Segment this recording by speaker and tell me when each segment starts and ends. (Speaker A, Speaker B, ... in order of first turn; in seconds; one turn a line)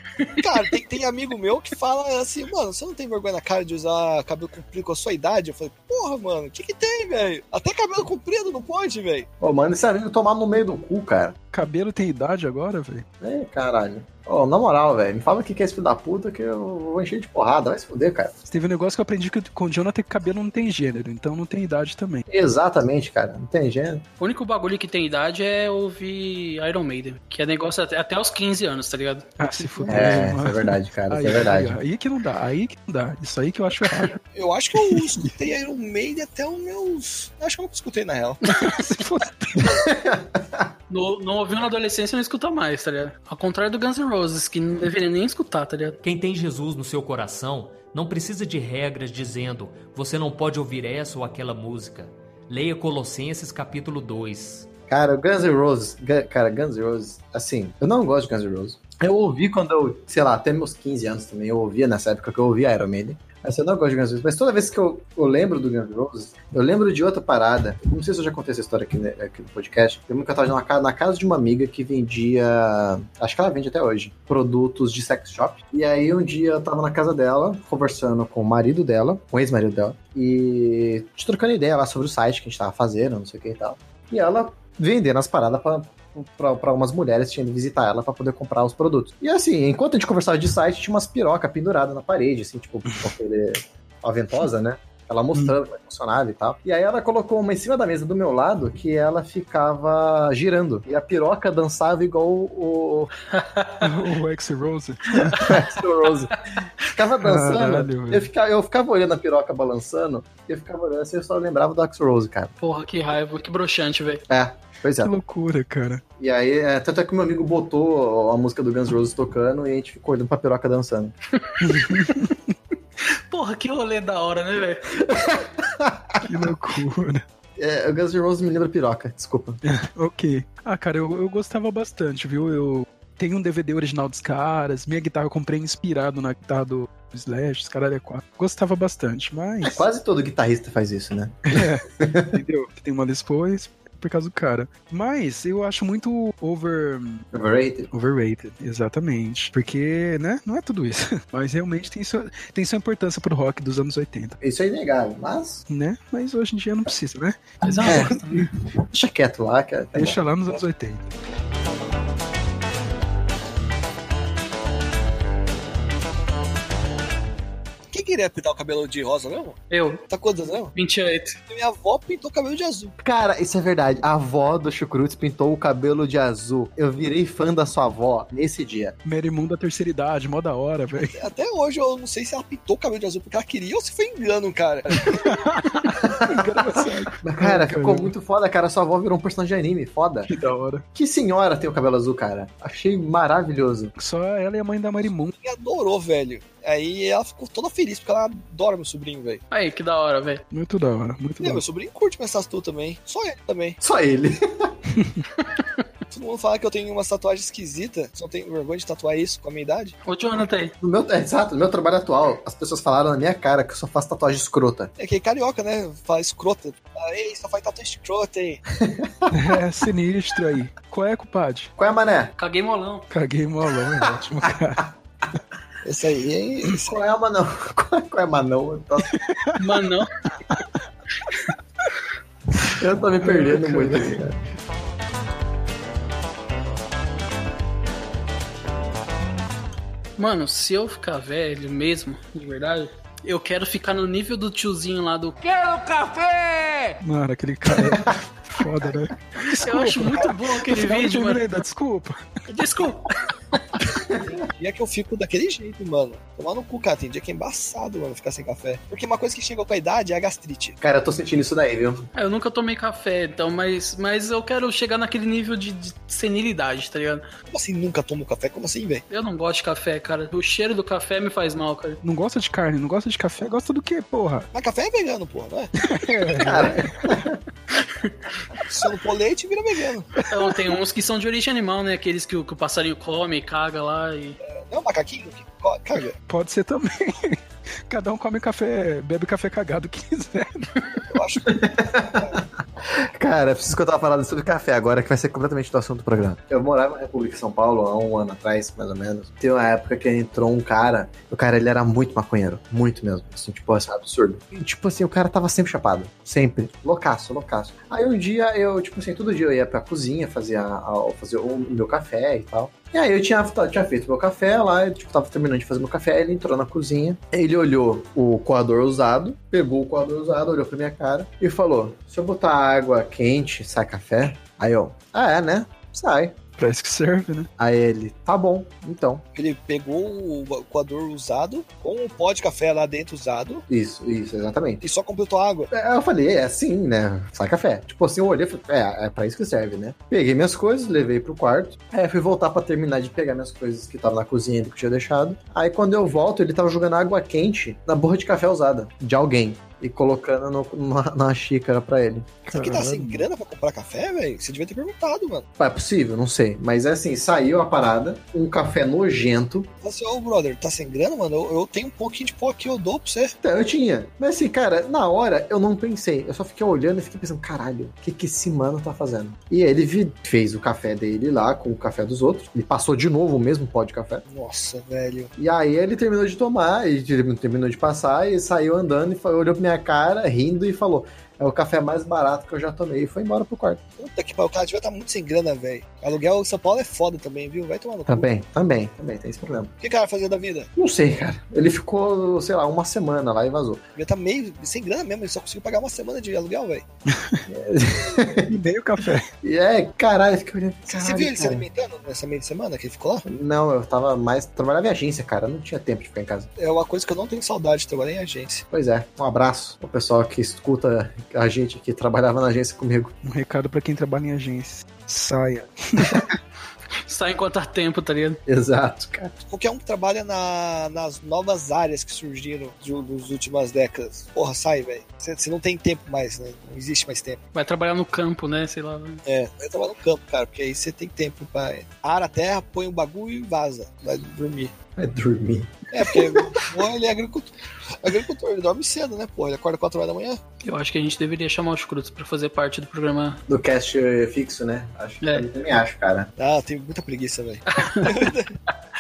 Speaker A: 0.2-9.3
Speaker B: 9.4-11.4
Speaker C: 11.5-13.1
Speaker B: 13.2-18.4
Speaker C: 18.5-22.3
Speaker B: 22.3-24.0
Speaker D: 24.2-30.2
Speaker C: 29.4-34.2
Speaker B: 29.9-31.8
Speaker A: 34.3-38.4
Speaker C: 34.8-35.3
Speaker C: 38.4-39.8
Speaker B: 39.6-40.6
Speaker D: 40.9-46.0
Speaker E: 46.0-54.7
Speaker B: 54.9-103.1
Speaker D: 103.3-103.9
Speaker C: 103.8-105.6
Speaker B: 105.3-112.5
Speaker C: 107.2-108.3
Speaker D: 112.6-114.2
Speaker B: 114.3-115.1
Speaker C: 115.0-116.0
Speaker B: 116.2-121.1
Speaker D: 121.4-122.1
Speaker C: 121.6-122.4
Speaker D: 123.3-124.9
Speaker B: 125.0-126.3
Speaker C: 126.2-127.2
Speaker B: 127.6-129.6
Speaker C: 129.6-139.8
Speaker B: 139.6-142.4
Speaker C: 141.5-147.2
Speaker B: 147.3-147.9
Speaker C: 147.9-154.4
Speaker B: 154.4-155.6
Speaker C: 155.7-158.1
Speaker D: 157.6-158.5
Speaker B: 157.8-160.2
Speaker C: 159.9-161.1
Speaker A: 167.9-170.7
Speaker D: 169.7-170.0
Speaker D: 170.8-171.4
Speaker A: 171.5-172.9
Speaker B: 173.0-178.9
Speaker C: 179.1-181.2
Speaker A: 181.1-185.2
Speaker C: 184.9-188.1
Speaker B: 186.1-190.4
Speaker C: 190.3-190.8
Speaker B: 190.9-193.9
Speaker C: 194.0-195.3
Speaker A: 195.4-199.4
Speaker D: 199.5-200.4
Speaker C: 200.5-201.6
Speaker A: 201.4-203.8
Speaker B: 203.8-204.7
Speaker C: 204.9-205.2
Speaker A: 206.1-209.9
Speaker D: 210.1-210.8
Speaker B: 210.8-214.9
Speaker A: 215.0-218.6
Speaker B: 218.8-219.3
Speaker C: 219.3-221.7
Speaker B: 221.8-222.3
Speaker D: 222.4-223.1
Speaker C: 223.1-224.9
Speaker B: 224.0-224.5
Speaker A: 225.8-226.9
Speaker B: 226.8-229.1
Speaker C: 229.1-229.8
Speaker D: 229.6-230.2
Speaker B: 232.7-234.4
Speaker C: 233.2-234.1
Speaker D: 240.2-246.0
Speaker C: 246.9-252.3
Speaker D: 249.6-251.4
Speaker A: 249.9-250.3
Speaker D: 252.5-253.6
Speaker B: 253.9-254.2
Speaker A: 254.3-260.8
Speaker B: 260.8-262.1
Speaker D: 262.1-267.3
Speaker A: 267.5-269.0
Speaker D: 269.1-272.0
Speaker C: 272.0-274.5
Speaker A: 274.5-275.7
Speaker C: 275.8-277.1
Speaker A: 276.4-276.7
Speaker B: 276.4-277.4
Speaker D: 277.8-278.1
Speaker A: 278.6-280.2
Speaker D: 280.3-284.4
Speaker A: 284.4-286.2
Speaker C: 286.3-290.7
Speaker A: 291.1-292.2
Speaker B: 291.5-326.4
Speaker C: 326.6-327.5
Speaker B: 327.6-329.2
Speaker A: 329.4-333.6
Speaker B: 333.7-334.8
Speaker A: 334.8-335.7
Speaker B: 335.7-352.4
Speaker A: 352.5-355.5
Speaker C: 352.5-353.3
Speaker B: 355.6-359.7
Speaker A: 359.8-363.4
Speaker B: 363.4-374.2
Speaker A: 374.3-375.3
Speaker B: 375.4-383.8
Speaker A: 384.0-388.3
Speaker B: 388.1-389.7
Speaker A: 389.8-390.7
Speaker B: 390.8-393.8
Speaker A: 393.9-396.9
Speaker C: 397.1-397.4
Speaker B: 397.5-398.5
Speaker C: 398.4-399.3
Speaker B: 399.4-401.6
Speaker A: 400.9-403.3
Speaker B: 403.3-406.5
Speaker A: 406.6-408.6
Speaker B: 408.7-413.1
Speaker C: 413.2-416.3
Speaker D: 417.1-418.4
Speaker B: 418.5-419.3
Speaker A: 419.5-427.4
Speaker D: 427.5-429.2
Speaker A: 429.2-434.7
Speaker B: 434.9-436.7
Speaker A: 435.9-440.4
Speaker D: 440.6-443.4
Speaker B: 443.5-446.3
Speaker A: 446.4-448.6
Speaker D: 447.7-448.3